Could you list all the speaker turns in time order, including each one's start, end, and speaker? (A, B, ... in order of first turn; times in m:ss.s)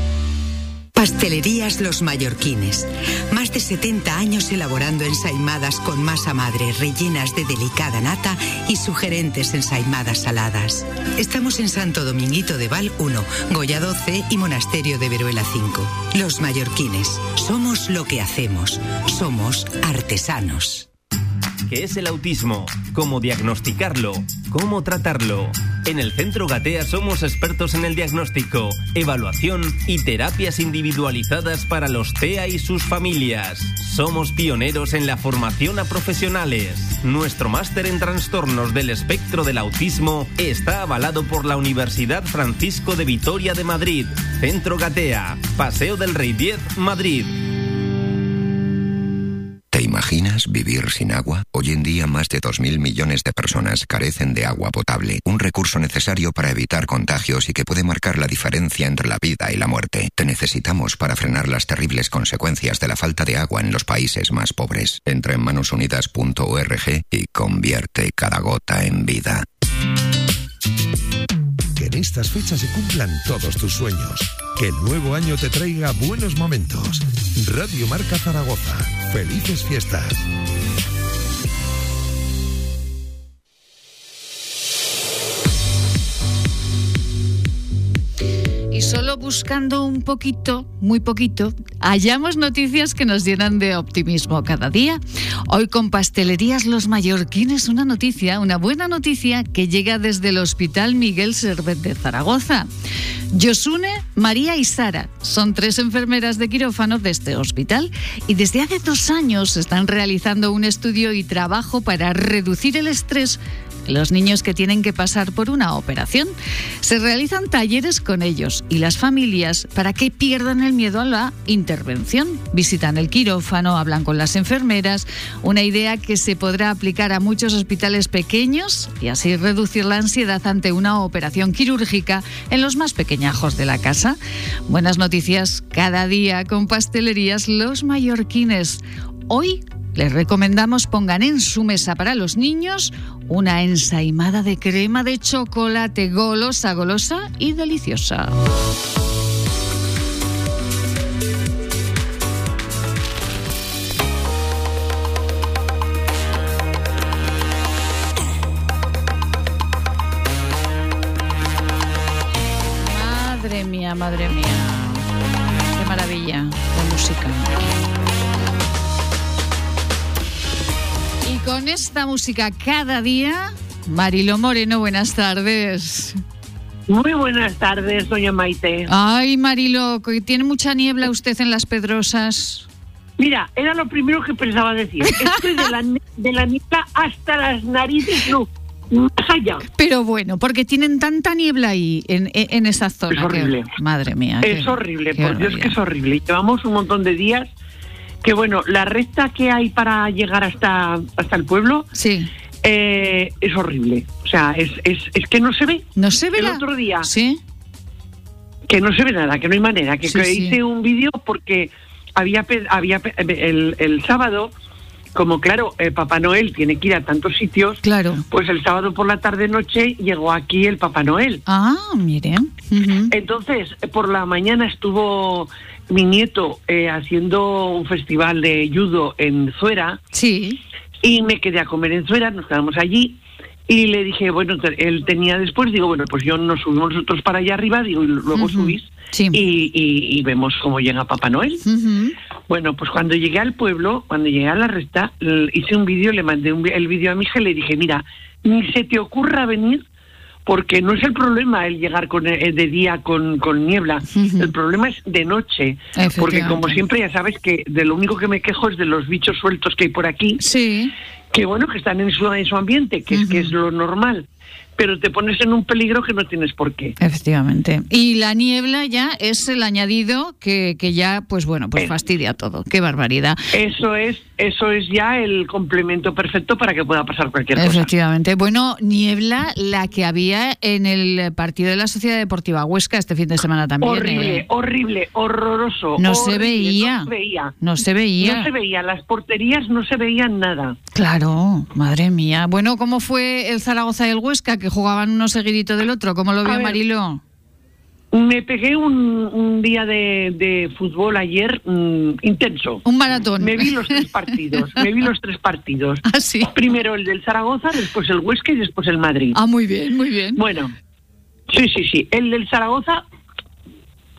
0:00.9-0:20.9 A
0:21.7-0:47.3 B
0:49.7-1:09.4 C
1:11.8-1:20.2 D
1:28.7-1:42.7 E
1:43.3-2:28.4 E
2:42.8-2:45.1 E
2:45.7-2:47.6 E
2:51.2-2:56.2 E
2:56.9-2:58.9 F
2:58.9-3:02.6 E
3:03.2-3:09.6 F
3:09.7-3:15.8 E
3:13.1-3:13.7 F
3:14.4-3:17.5 F
3:18.2-3:21.9 F
3:21.9-3:22.3 E
3:22.6-3:27.1 F
3:26.0-3:27.4 E
3:28.7-3:34.5 F
3:30.0-3:30.6 E
3:35.1-3:41.4 F
3:37.8-3:38.2 E
3:41.4-3:43.1 E
3:43.1-3:50.0 F
3:50.1-3:50.6 E
3:51.0-4:01.6 F
3:58.3-3:59.4 E
4:01.6-4:02.1 E
4:02.5-4:09.8 F
4:10.4-4:20.4 F
4:14.1-4:14.5 E
4:15.9-4:16.8 E
4:20.4-4:20.9 E
4:21.3-4:26.9 F
4:23.1-4:23.5 E
4:27.0-4:33.4 E
4:33.5-4:37.9 F
4:37.5-4:44.4 E
4:43.8-4:47.6 F
4:46.0-4:48.5 E
4:48.2-4:50.8 F
4:50.9-4:57.2 E
4:56.4-4:56.8 F
4:58.1-5:02.8 F
5:02.8-5:04.0 E
5:03.4-5:09.4 F
5:06.1-5:06.6 E
5:09.3-5:10.4 E
5:10.4-5:10.8 F
5:11.5-5:13.0 F